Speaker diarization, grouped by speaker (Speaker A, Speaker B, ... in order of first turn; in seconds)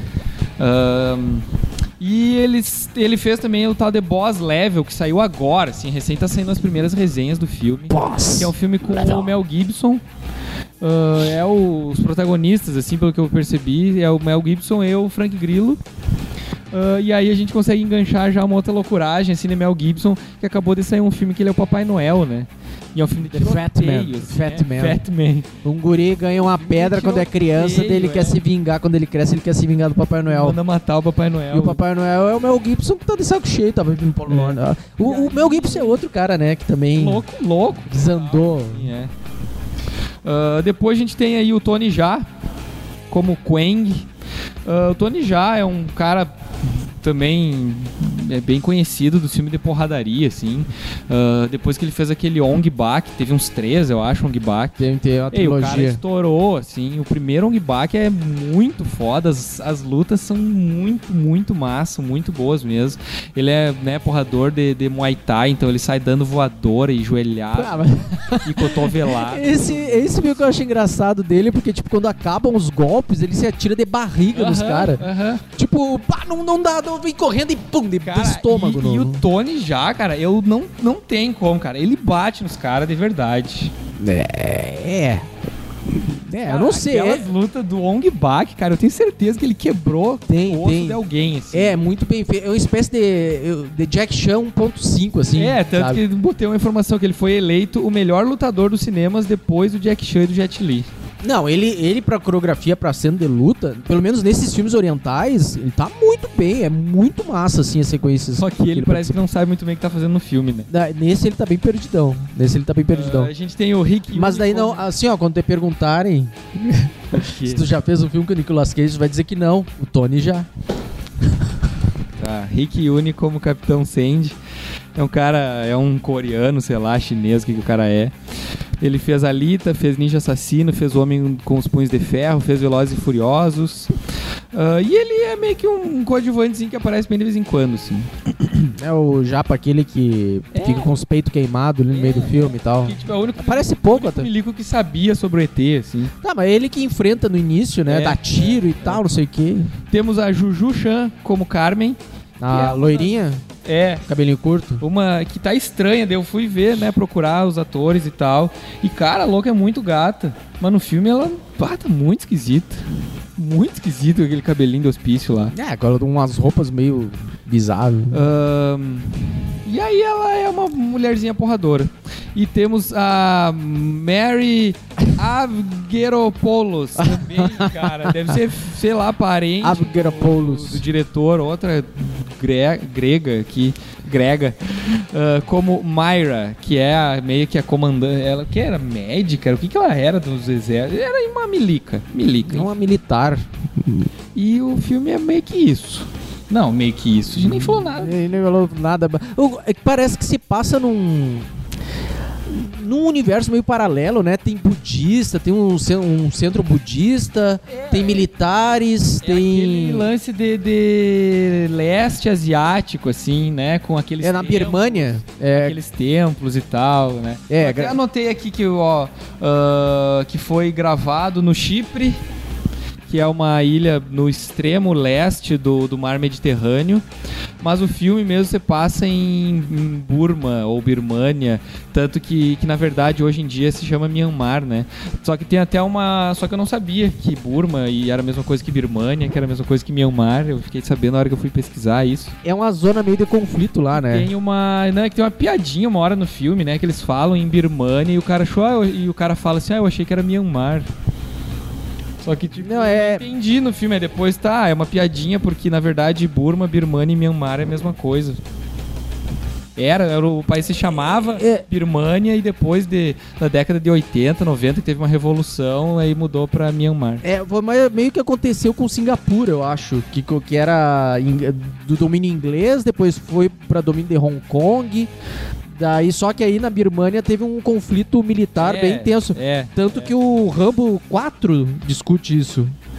Speaker A: 0.6-1.4, 2.0-10.0, 10.8-15.8, 16.7-25.5, 26.4-28.4, 30.3-31.8, 34.3-36.0, 36.9-39.1, 40.2-42.2, 43.1-44.0, 44.6-46.3, 47.0-67.8, 68.4-70.5, 74.3-75.4, 78.0-83.7, 86.4-91.8, 95.3-100.9, 108.3-110.7, 112.9-114.9, 117.1-117.7, 122.2-124.3, 125.0-128.1, 128.8-133.9, 134.5-138.1, 140.5-140.9, 141.9-146.1, 147.8-149.0, 149.9-153.1, 153.6-154.0, 154.8-165.5, 168.1-192.7, 194.3-198.3, 207.7-208.2, 209.2-222.2, 223.1-227.0, 227.6-242.3, 243.9-250.9, 252.2-258.4, 259.8-267.2, 278.6-280.1
Speaker B: 7.9-9.3, 23.3-25.0, 25.6-30.6, 31.5-37.2, 37.9-38.9, 54.8-56.0, 67.5-79.2, 84.0-85.3, 85.9-87.3, 90.3-91.0, 91.5-96.0, 101.2-109.2, 110.7-113.3, 114.1-120.5, 138.7-144.3, 146.2-149.7, 152.4-153.4, 154.1-154.8, 165.5-168.2, 177.0-178.3, 179.6-180.8, 192.5-194.1, 197.4-201.5, 202.4-210.1, 214.2-215.8, 217.5-218.0, 242.4-244.3, 252.6-253.2, 261.3-261.6, 267.2-275.1, 275.7-282.7